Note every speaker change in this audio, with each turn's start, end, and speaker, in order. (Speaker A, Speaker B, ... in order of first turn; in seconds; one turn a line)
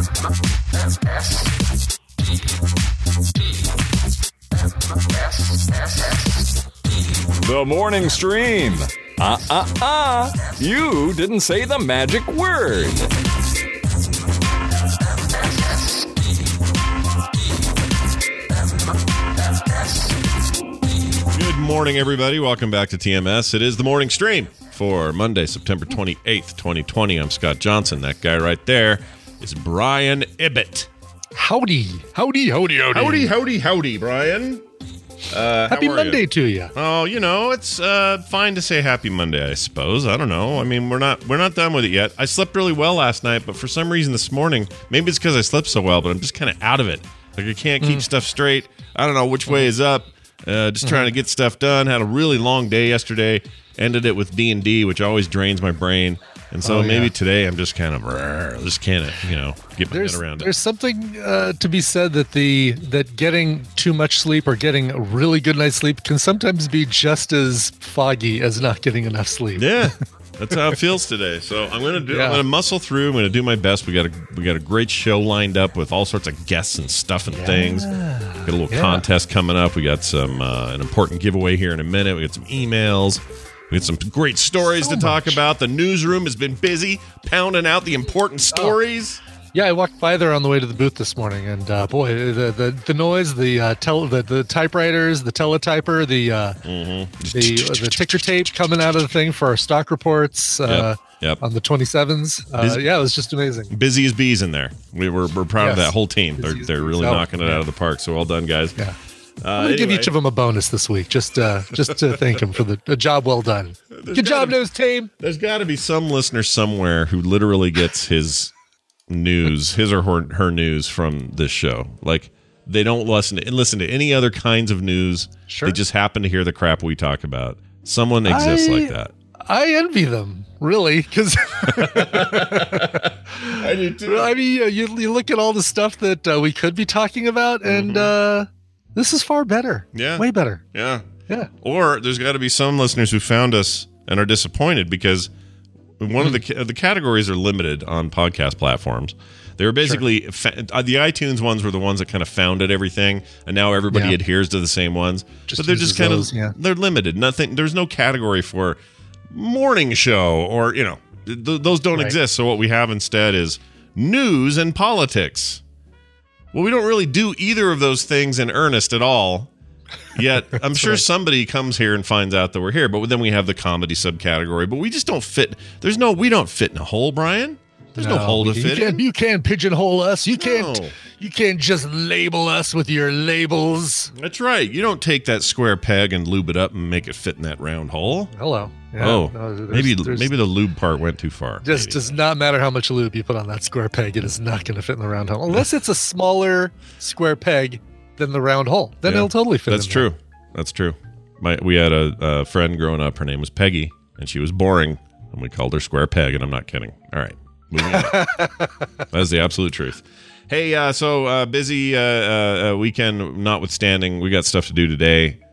Speaker A: 7.4-13.1
Speaker B: 21.3-30.9
Speaker C: 31.4-33.3
Speaker B: 32.9-34.6
Speaker B: 35.3-36.2
Speaker C: 35.7-36.7
Speaker B: 36.8-60.5
Speaker C: 50.8-51.1
Speaker C: 56.6-57.1
Speaker C: 59.9-69.9
Speaker B: 69.6-77.9
Speaker C: 70.5-70.8
Speaker C: 72.1-72.4
Speaker C: 77.3-79.0
Speaker B: 78.5-89.2
Speaker C: 84.8-85.4
Speaker C: 89.5-96.6
Speaker B: 96.7-98.1
Speaker C: 97.3-103.7
Speaker B: 100.7-101.4
Speaker B: 102.6-102.9
Speaker B: 103.7-108.8
Speaker C: 105.6-107.7
Speaker B: 109.4-110.1
Speaker C: 109.6-115.1
Speaker B: 113.9-114.6
Speaker B: 115.2-118.5
Speaker B: 119.1-129.1
Speaker C: 125.5-125.8
Speaker C: 128.2-128.9
Speaker C: 129.5-140.6
Speaker B: 131.7-134.3
Speaker B: 137.7-138.1
Speaker B: 139.9-141.1
Speaker B: 141.6-145.3
Speaker B: 146.0-158.8
Speaker C: 153.9-154.2
Speaker C: 155.5-156.6
Speaker B: 159.3-165.6
Speaker B: 166.5-169.5
Speaker B: 170.1-179.0
Speaker C: 170.6-171.0
Speaker C: 177.9-184.1
Speaker B: 180.3-180.9
Speaker B: 184.2-188.3
Speaker C: 188.3-190.3
Speaker B: 189.0-192.1
Speaker C: 191.6-200.1
Speaker B: 199.1-208.3
Speaker C: 207.9-208.7
Speaker B: 209.1-215.4